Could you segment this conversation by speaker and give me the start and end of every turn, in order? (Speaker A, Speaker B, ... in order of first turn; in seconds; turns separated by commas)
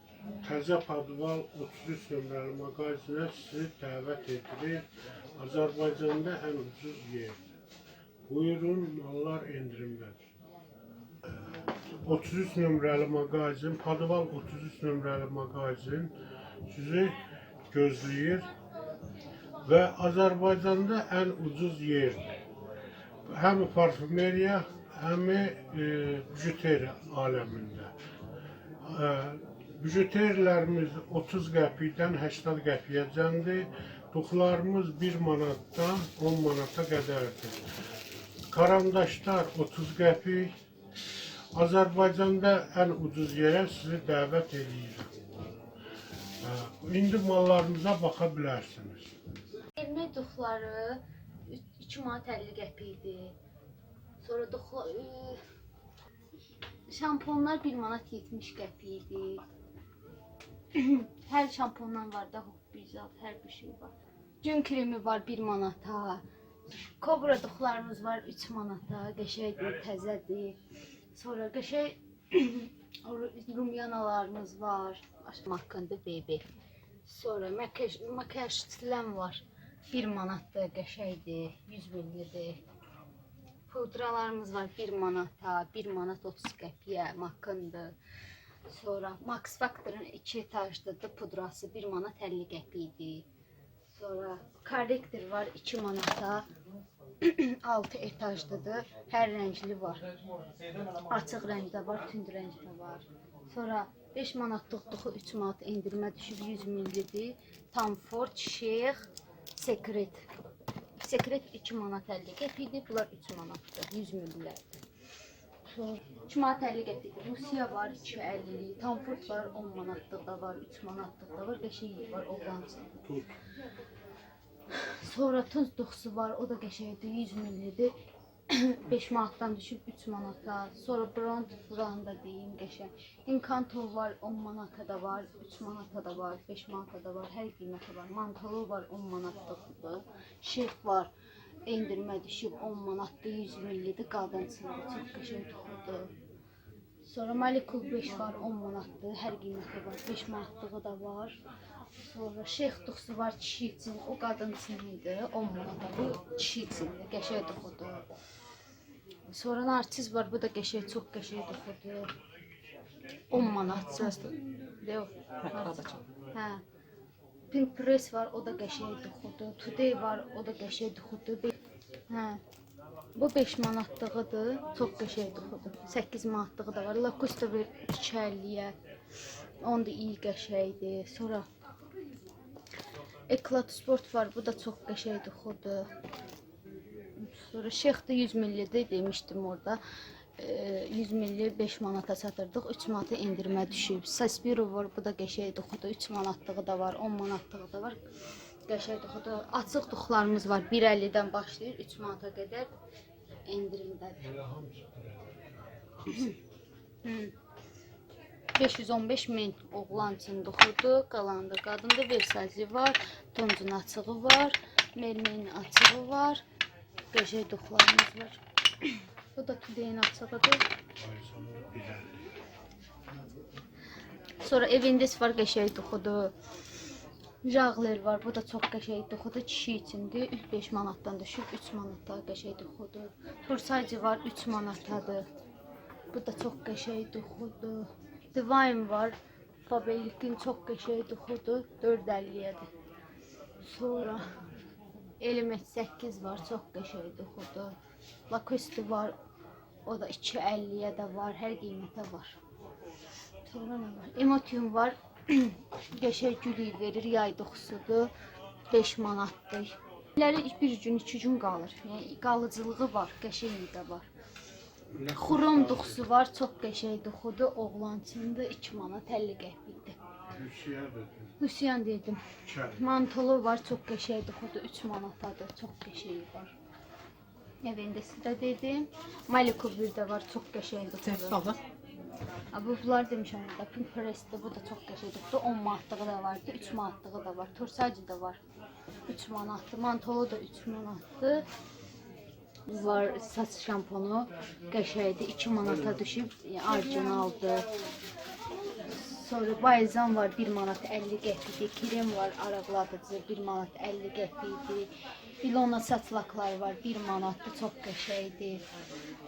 Speaker A: 0.4-4.8, Speaker A: 5.4-7.4, Speaker A: 8.3-10.2, Speaker A: 12.1-16.1, Speaker A: 16.7-17.1, Speaker A: 17.7-18.4, Speaker A: 19.6-22.4, Speaker A: 23.3-27.9, Speaker A: 28.9-37.6, Speaker A: 38.5-40.5, Speaker A: 41.5-45.1, Speaker A: 46.4-49.1, Speaker B: 49.8-53.4, Speaker B: 54.2-55.4, Speaker B: 56.9-59.5, Speaker B: 60.8-70.6, Speaker B: 71.1-76.5, Speaker B: 77.1-82.6, Speaker B: 83.7-88.0, Speaker B: 88.7-93.3, Speaker B: 93.9-96.5, Speaker B: 97.2-100.0, Speaker B: 101.1-110.3, Speaker B: 111.0-114.8, Speaker B: 115.7-123.0, Speaker A: 123.1-123.4, Speaker B: 124.7-127.9, Speaker B: 128.5-141.1, Speaker B: 141.7-146.1, Speaker B: 147.1-151.4, Speaker B: 152.0-158.1, Speaker B: 159.3-162.1, Speaker B: 163.3-166.6, Speaker B: 167.5-171.6, Speaker B: 172.1-172.4, Speaker B: 173.2-178.8, Speaker B: 179.6-181.5, Speaker B: 183.3-185.9, Speaker B: 187.2-189.8, Speaker B: 190.4-198.0, Speaker B: 198.7-202.7, Speaker B: 203.5-204.3, Speaker A: 204.2-205.5, Speaker B: 206.1-206.4, Speaker B: 207.1-207.3, Speaker B: 208.6-216.4, Speaker B: 217.1-220.7, Speaker A: 221.0-222.3, Speaker B: 224.4-226.3, Speaker B: 227.4-235.3, Speaker B: 236.1-242.7, Speaker B: 243.6-244.2, Speaker B: 245.2-247.8, Speaker B: 248.3-249.2, Speaker B: 249.8-252.4, Speaker B: 253.5-258.1, Speaker B: 258.7-264.1, Speaker A: 265.0-265.3, Speaker B: 265.1-270.0, Speaker A: 270.3-271.4, Speaker B: 271.4-272.2, Speaker A: 272.4-272.8, Speaker B: 272.8-276.5, Speaker B: 277.6-281.6, Speaker B: 282.5-288.4, Speaker B: 289.1-291.4, Speaker B: 292.7-297.7, Speaker B: 298.9-304.9, Speaker B: 305.4-308.6